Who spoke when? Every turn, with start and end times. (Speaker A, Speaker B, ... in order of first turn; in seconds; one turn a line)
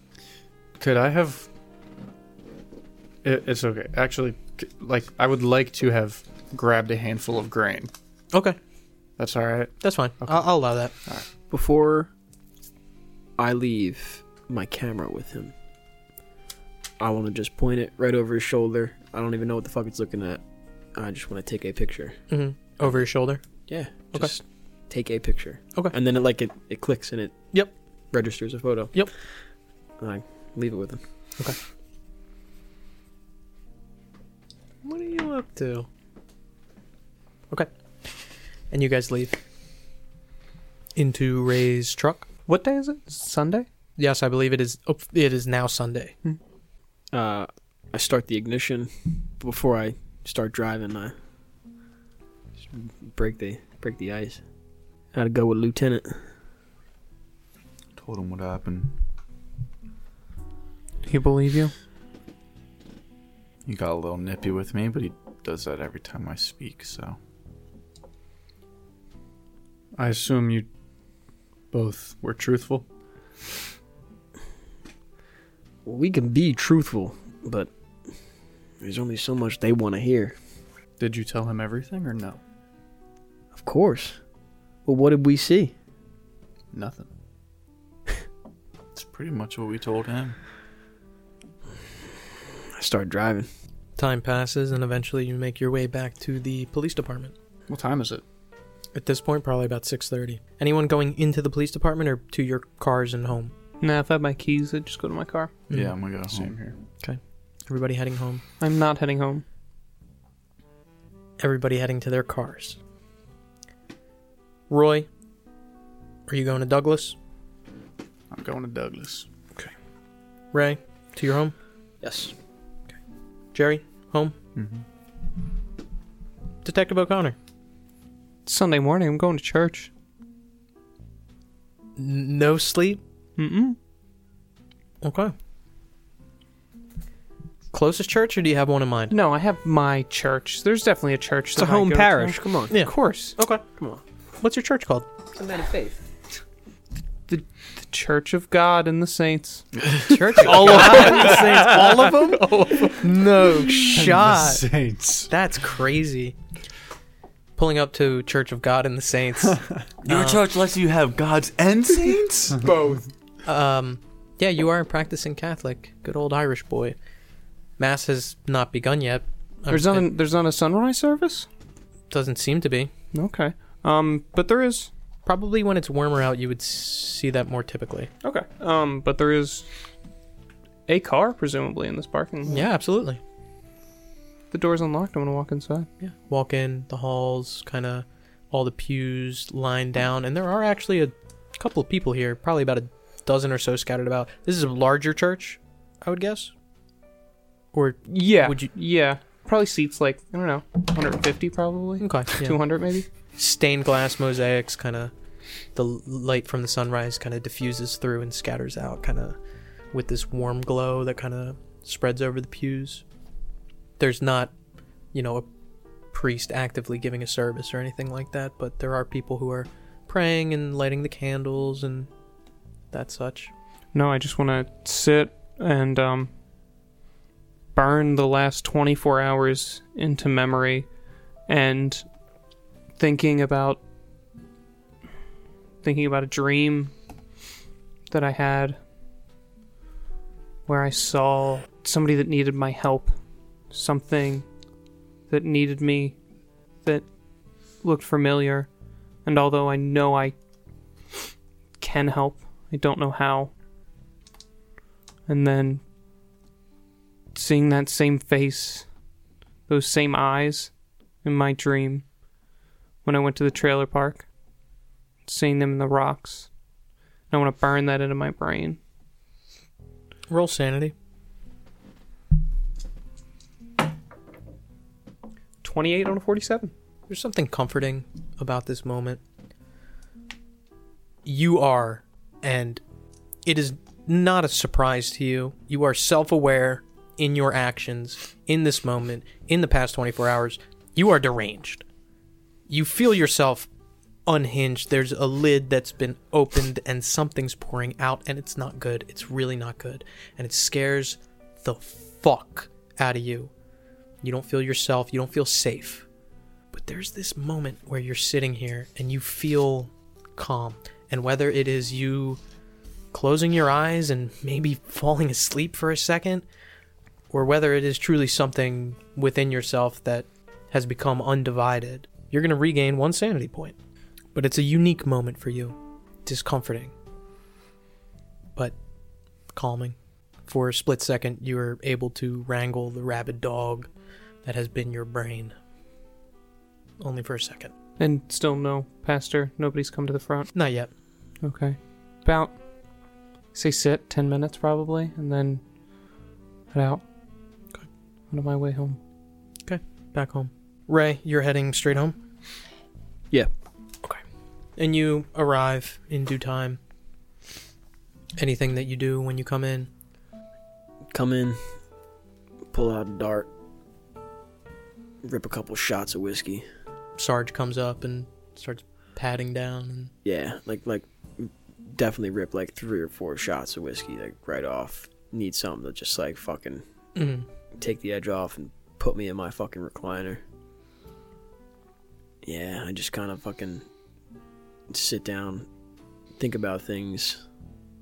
Speaker A: 0.8-1.5
Speaker A: 3.2-7.9
Speaker A: 9.2-10.4
Speaker B: 9.8-10.9
Speaker C: 11.5-12.1
Speaker C: 13.4-15.5
Speaker C: 17.0-20.4
Speaker C: 20.9-22.2
Speaker B: 22.3-23.4
Speaker C: 23.7-27.4
Speaker C: 28.1-29.0
Speaker C: 30.0-31.0
Speaker B: 34.8-35.9
Speaker B: 38.7-39.4
Speaker B: 41.0-42.3
Speaker D: 42.5-43.7
Speaker B: 44.0-46.1
Speaker C: 47.1-51.1
Speaker C: 52.7-54.4
Speaker C: 55.1-56.2
Speaker E: 58.0-59.0
Speaker D: 61.0-61.7
Speaker E: 63.7-67.2
Speaker A: 70.0-70.7
Speaker A: 71.7-72.8
Speaker C: 75.8-77.7
Speaker C: 78.8-80.4
Speaker A: 81.0-82.4
Speaker C: 83.5-84.2
Speaker C: 84.9-85.7
Speaker A: 86.7-87.1
Speaker E: 89.0-90.4
Speaker C: 92.8-93.5
Speaker B: 94.0-97.3
Speaker A: 97.7-98.2
Speaker B: 99.0-103.5
Speaker D: 103.8-105.5
Speaker E: 105.7-106.5
Speaker A: 106.3-106.8
Speaker B: 107.0-108.4
Speaker D: 108.6-109.4
Speaker B: 111.4-112.8
Speaker B: 114.7-115.1
Speaker B: 116.3-117.2
Speaker A: 118.3-119.3
Speaker B: 120.5-121.5
Speaker C: 122.0-122.3
Speaker B: 123.5-124.3
Speaker B: 126.6-127.4
Speaker D: 128.5-129.9
Speaker B: 132.0-133.0
Speaker D: 133.4-133.8
Speaker B: 135.0-135.3
Speaker B: 137.7-139.2
Speaker D: 139.1-143.3
Speaker C: 141.6-142.8
Speaker B: 142.7-143.6
Speaker B: 144.4-145.1
Speaker C: 145.3-146.0
Speaker D: 147.3-149.7
Speaker B: 150.1-154.7
Speaker D: 150.4-152.9
Speaker A: 153.9-155.3
Speaker B: 155.3-156.4
Speaker B: 157.6-160.4
Speaker E: 160.0-162.7
Speaker B: 163.5-167.0
Speaker B: 167.8-170.1
Speaker D: 169.7-171.5
Speaker B: 172.1-172.9
Speaker D: 173.1-174.9
Speaker B: 175.3-178.1
Speaker D: 178.2-179.7
Speaker D: 180.9-182.6
Speaker B: 182.5-183.2
Speaker D: 184.5-185.9
Speaker B: 186.0-196.5
Speaker B: 197.7-198.7
Speaker D: 198.1-203.1
Speaker B: 202.0-202.6
Speaker B: 203.3-205.1
Speaker B: 205.8-209.4
Speaker B: 209.9-213.0
Speaker B: 214.0-214.5
Speaker B: 215.1-215.5
Speaker B: 216.1-222.1
Speaker B: 222.9-223.5
Speaker D: 223.9-226.3
Speaker D: 227.7-230.9
Speaker D: 231.5-232.1
Speaker D: 233.0-233.8
Speaker D: 235.8-236.9
Speaker D: 238.1-238.8
Speaker D: 240.7-243.1
Speaker D: 243.7-244.4
Speaker D: 245.3-246.2
Speaker D: 247.8-248.7
Speaker D: 249.2-250.3
Speaker D: 251.8-253.5
Speaker D: 255.3-255.8
Speaker D: 257.3-258.9
Speaker D: 259.7-260.7
Speaker D: 261.2-262.1
Speaker D: 263.0-264.2
Speaker D: 265.3-266.5
Speaker D: 267.3-268.8
Speaker B: 270.3-270.9
Speaker D: 275.6-276.7
Speaker B: 277.1-279.2
Speaker B: 281.2-282.8
Speaker B: 283.4-291.8
Speaker B: 292.7-293.7
Speaker B: 294.3-303.5
Speaker B: 304.2-306.1
Speaker B: 306.7-312.4
Speaker B: 313.1-316.4
Speaker B: 317.3-323.8
Speaker B: 324.4-326.9
Speaker B: 329.5-330.0
Speaker B: 330.5-333.9
Speaker B: 334.4-335.6
Speaker B: 337.0-337.7
Speaker D: 338.0-340.5
Speaker B: 340.5-340.9
Speaker D: 341.4-342.6
Speaker D: 343.5-345.6
Speaker D: 346.7-347.0
Speaker D: 348.3-349.0
Speaker B: 349.7-352.2
Speaker B: 354.8-356.8
Speaker B: 358.4-359.9
Speaker C: 361.1-361.6
Speaker C: 362.7-363.5
Speaker C: 365.2-366.7
Speaker B: 367.2-370.1
Speaker C: 370.2-376.8
Speaker B: 377.2-377.5
Speaker C: 377.8-380.4
Speaker C: 382.4-383.9
Speaker C: 384.9-385.7
Speaker C: 386.4-387.4